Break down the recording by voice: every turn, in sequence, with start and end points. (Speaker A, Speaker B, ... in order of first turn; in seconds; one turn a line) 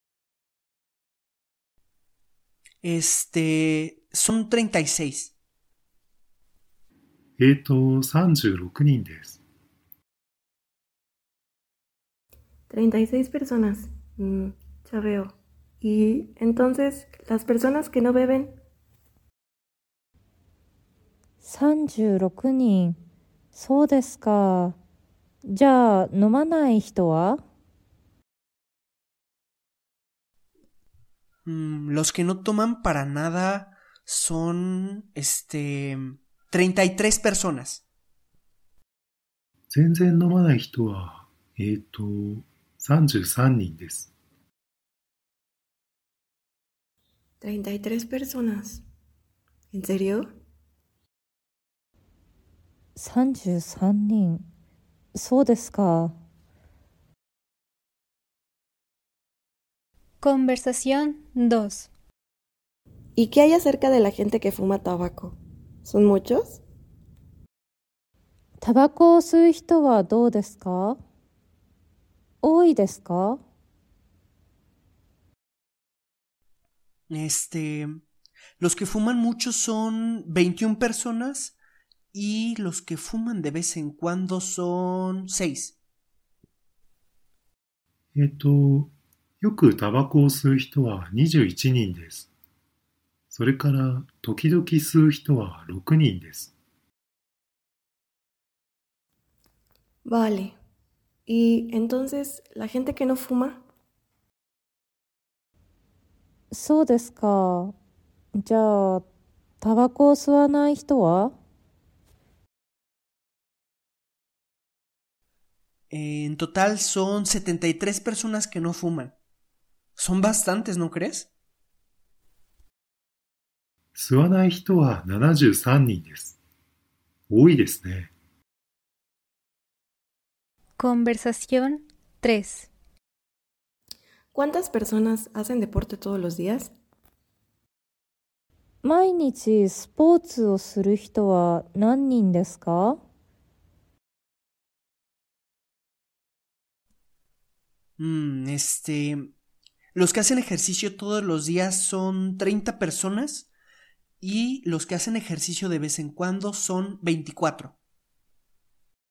Speaker A: 2.8-5.3
Speaker B: 7.4-9.4
Speaker C: 12.7-18.5
Speaker D: 21.4-23.0
Speaker D: 23.5-24.8
Speaker D: 25.4-27.4
Speaker A: 31.4-37.8
Speaker B: 39.7-44.1
Speaker C: 47.4-48.8
Speaker C: 49.7-50.3
Speaker D: 53.0-54.5
Speaker D: 55.1-56.1
Speaker E: 60.2-61.9
Speaker C: 63.1-66.6
Speaker D: 68.6-71.0
Speaker D: 72.4-73.4
Speaker A: 77.1-78.0
Speaker A: 78.6-81.6
Speaker A: 82.1-85.8
Speaker B: 88.1-92.3
Speaker B: 93.3-96.5
Speaker C: 100.0-100.5
Speaker C: 101.3-103.6
Speaker D: 106.5-107.7
Speaker D: 108.3-109.0
Speaker D: 109.6-111.3
Speaker A: 115.9-119.1
Speaker A: 120.0-121.3
Speaker B: 123.9-126.4
Speaker B: 127.3-128.1
Speaker E: 130.8-132.7
Speaker C: 134.3-136.7
Speaker D: 138.8-143.0
Speaker A: 148.0-149.3
Speaker A: 149.9-153.5
Speaker A: 154.2-157.7